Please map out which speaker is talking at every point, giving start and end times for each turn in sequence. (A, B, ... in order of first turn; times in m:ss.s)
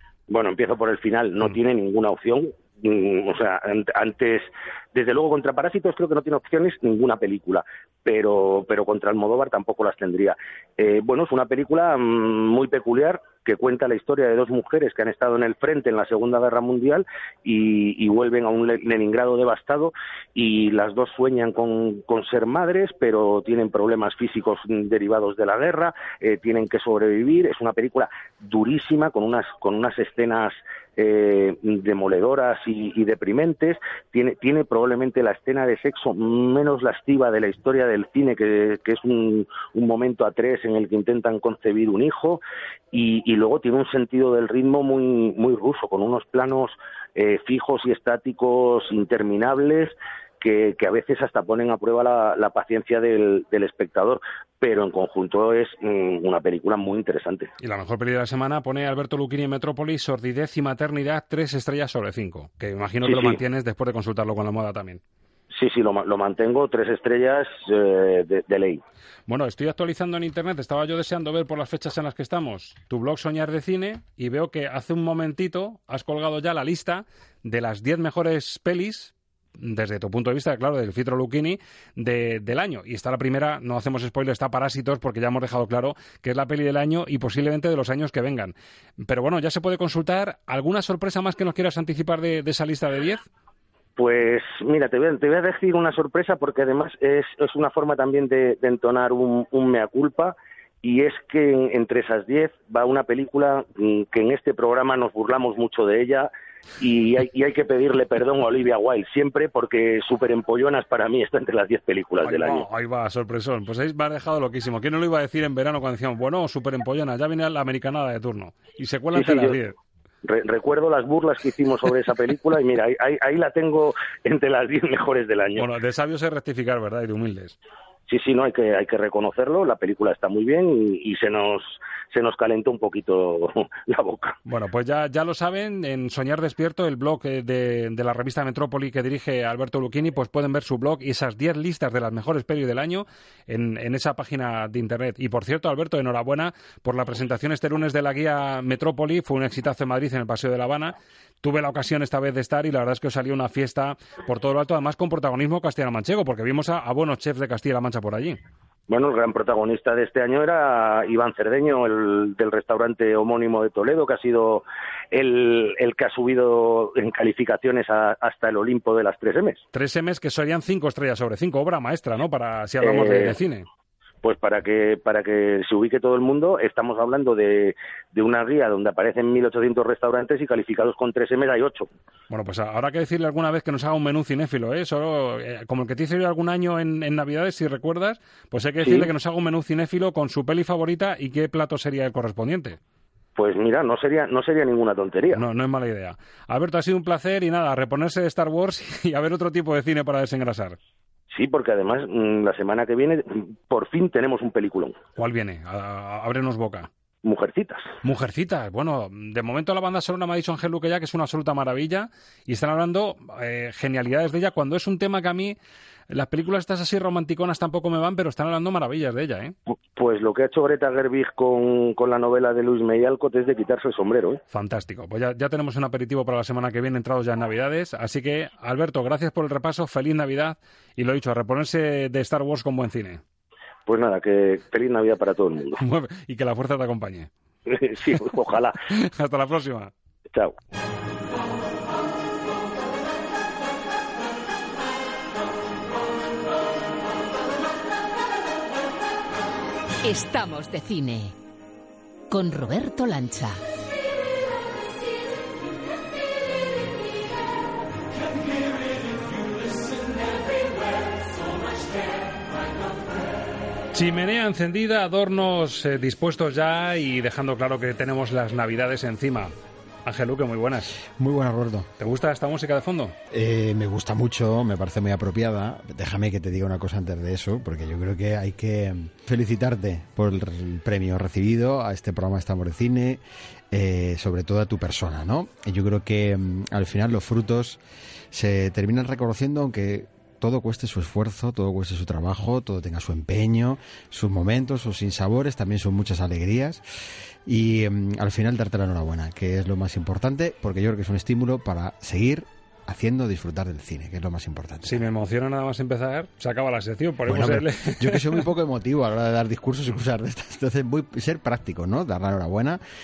0:00.3-0:57.5 A
0:57.6-1:05.0 B
1:03.0-1:03.4 A
1:05.5-1:08.8 A
1:09.3-1:33.3 B
1:34.0-1:52.6 A
1:52.2-1:59.8 B
1:59.2-1:59.6 A
2:00.2-2:05.7 A
2:05.6-2:07.6 B
2:08.1-2:14.4 A
2:14.5-2:38.4 B
2:38.9-2:49.6 A
2:49.7-2:53.7 B
2:52.8-2:53.4 A
2:54.2-3:01.9 A
3:02.3-3:12.8 B
3:08.8-3:09.1 A
3:13.4-3:15.4 A
3:15.3-3:20.8 B
3:21.3-3:25.0 A
3:25.2-3:26.9 B
3:27.2-3:27.9 A
3:28.0-3:35.6 B
3:36.1-3:39.5 B
3:39.7-3:44.4 A
3:44.5-3:53.2 B
3:53.9-3:55.8 A
3:55.8-3:57.3 B
3:57.7-3:58.7 A
3:58.9-3:59.9 B
4:10.0-4:11.3 C
4:12.3-4:13.6 C
4:23.9-4:29.5 B
4:30.0-4:31.0 B
4:31.1-4:31.9 D
4:32.0-4:33.2 B
4:33.3-4:47.8 D
4:48.3-4:56.8 D
4:57.5-5:05.0 D
5:04.8-5:08.5 B
5:07.3-5:12.8 D